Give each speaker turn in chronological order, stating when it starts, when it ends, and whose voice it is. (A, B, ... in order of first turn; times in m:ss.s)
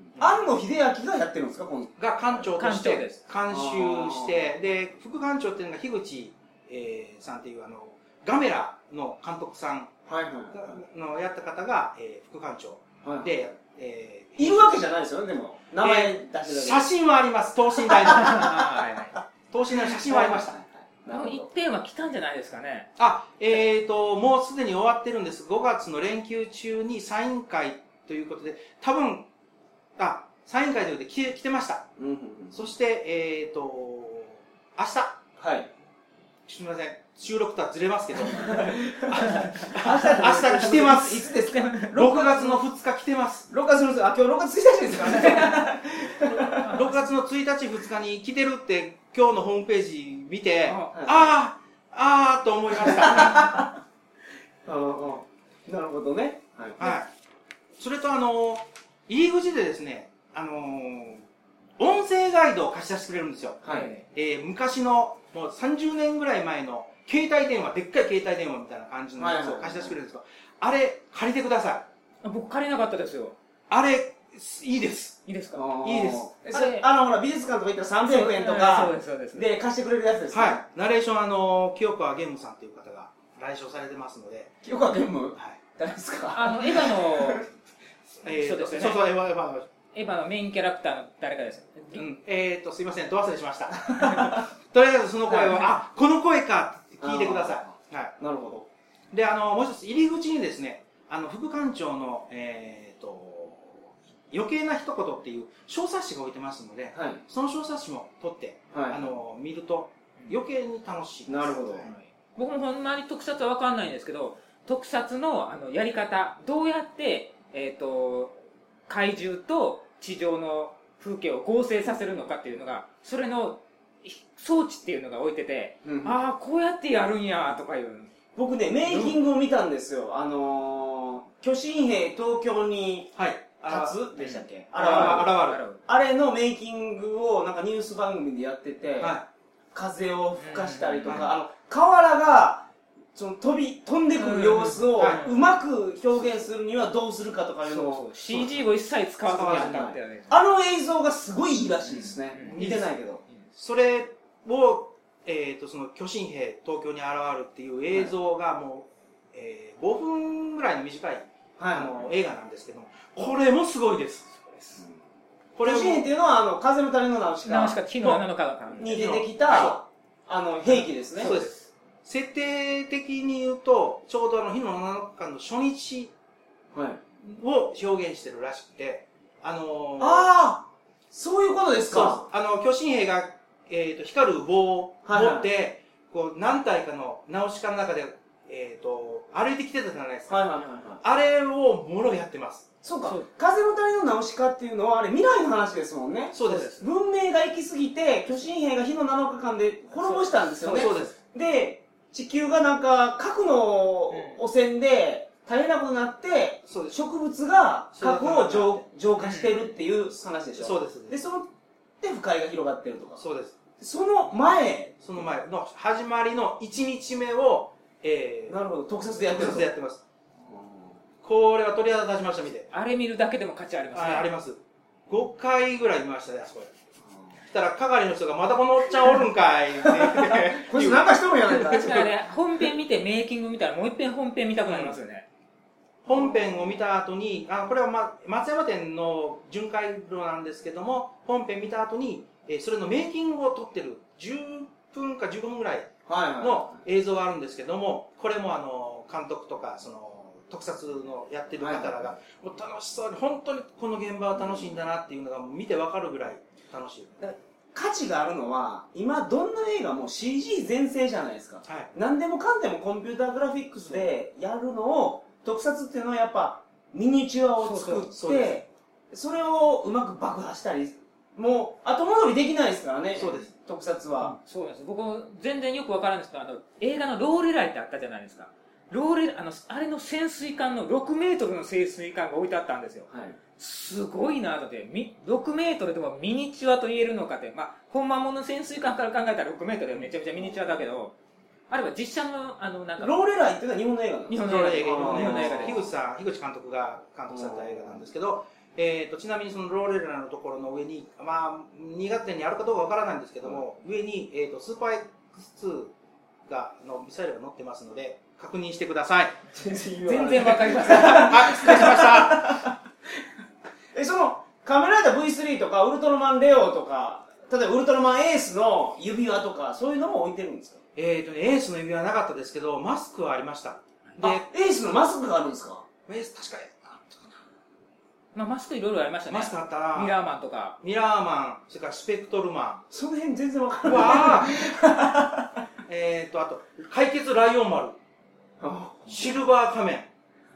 0:00.2-0:01.9 A
0:02.0-0:09.9 B
0:02.5-0:03.2 C
0:03.5-0:04.5 A
0:10.1-0:10.8 A
0:10.5-0:14.8 B
0:13.0-0:13.3 A
0:14.4-0:16.9 A
0:15.8-0:18.8 B
0:17.9-0:18.5 A
0:18.1-0:19.1 C
0:19.5-0:20.5 B
0:19.7-0:21.5 A
0:21.1-0:22.9 C
0:23.0-0:29.3 B
0:30.0-0:31.9 B
0:32.0-0:32.6 A
0:32.5-0:35.2 B
0:35.4-0:35.7 A
0:36.4-0:41.3 B
0:38.3-0:42.6 A
0:40.4-0:40.8 C
0:41.3-0:42.3 C
0:41.9-0:43.5 B
0:43.5-0:46.6 A
0:45.2-0:45.6 C
0:46.4-0:47.1 C
0:46.6-0:53.6 B
0:50.6-0:51.0 C
0:50.9-0:51.3 A
0:52.9-0:53.7 A
0:54.6-0:56.8 A
0:56.8-0:57.1 B
0:57.8-1:01.2 B
1:01.8-1:11.8 B
1:03.6-1:03.9 A
1:03.6-1:04.0 C
1:09.2-1:10.0 A
1:12.2-1:13.4 C
1:13.7-1:15.2 B
1:15.2-1:15.6 C
1:15.5-1:20.6 A
1:15.8-1:16.3 B
1:16.5-1:16.8 C
1:18.0-1:19.5 C
1:20.3-1:24.5 B
1:24.6-1:27.4 A
1:26.3-1:27.4 C
1:28.2-1:29.7 B
1:28.3-1:29.0 C
1:29.9-1:32.0 C
1:31.9-1:38.1 B
1:33.9-1:34.3 A
1:35.3-1:35.6 A
1:37.0-1:38.7 A
1:39.1-1:51.9 B
1:46.9-1:47.2 A
1:48.7-1:49.0 A
1:51.3-1:51.9 A
1:51.8-1:58.4 C
1:58.9-2:08.1 C
2:05.8-2:06.2 A
2:08.4-2:13.1 A
2:13.1-2:14.0 B
2:13.6-2:19.2 A
2:14.2-2:15.8 C
2:14.7-2:15.6 B
2:19.0-2:19.3 B
2:19.7-2:28.6 A
2:20.4-2:21.3 C
2:21.1-2:21.3 B
2:24.2-2:25.4 C
2:25.0-2:25.3 B
2:27.7-2:30.4 C
2:29.3-2:29.9 B
2:29.4-2:33.2 A
2:31.9-2:32.6 C
2:32.5-2:32.9 B
2:33.5-2:44.8 B
2:41.6-2:42.1 A
2:45.5-2:46.1 B
2:45.6-2:47.8 A
2:47.4-2:49.2 C
2:48.8-2:51.3 A
2:48.8-2:49.8 B
2:51.2-2:56.1 B
2:51.2-2:51.5 C
2:56.7-2:57.0 A
2:57.2-3:00.2 B
3:00.0-3:02.2 A
3:01.9-3:10.4 B
3:05.0-3:05.5 A
3:10.3-3:11.0 A
3:11.0-3:12.7 B
3:12.8-3:31.5 A
3:16.3-3:16.8 B
3:16.5-3:16.8 C
3:20.0-3:21.1 C
3:20.6-3:21.2 B
3:24.1-3:24.4 C
3:26.7-3:27.0 B
3:27.9-3:28.8 B
3:29.2-3:29.7 C
3:30.6-3:31.2 B
3:32.0-3:33.2 A
3:33.2-3:33.6 B
3:33.8-3:35.0 A
3:35.0-3:38.6 B
3:38.5-3:39.7 A
3:39.3-3:40.0 B
3:40.5-3:41.0 A
3:41.2-3:42.7 B
3:42.7-3:44.3 C
3:43.9-3:46.7 B
3:47.4-3:51.2 B
3:50.3-3:52.1 A
3:51.5-3:55.2 C
3:54.6-3:55.0 B
3:56.0-3:56.8 A
3:56.0-4:17.2 B
4:06.0-4:06.8 A
4:11.6-4:12.0 A
4:17.2-4:34.4 A
4:21.6-4:21.9 B
4:27.6-4:28.1 C
4:28.1-4:28.6 B
4:33.2-4:33.5 B
4:34.3-4:51.1 C
4:43.1-4:43.4 A
4:51.7-4:53.2 C
4:53.0-4:55.8 A
4:54.3-4:55.9 C
4:54.4-5:05.9 B
4:57.3-4:58.0 A
5:06.5-5:09.4 B
5:09.5-5:12.8 A
5:10.0-5:11.8 C
5:10.4-5:12.7 B
5:13.9-5:20.8 A
5:21.0-5:24.5 B
5:24.2-5:25.8 A
5:26.1-5:27.4 B
5:28.3-5:30.8 C
5:29.3-5:30.1 B
5:30.8-5:32.8 B
5:32.9-5:35.6 A
5:33.8-5:34.7 B
5:35.9-5:38.0 B
5:38.6-5:39.3 A
5:39.1-5:40.1 B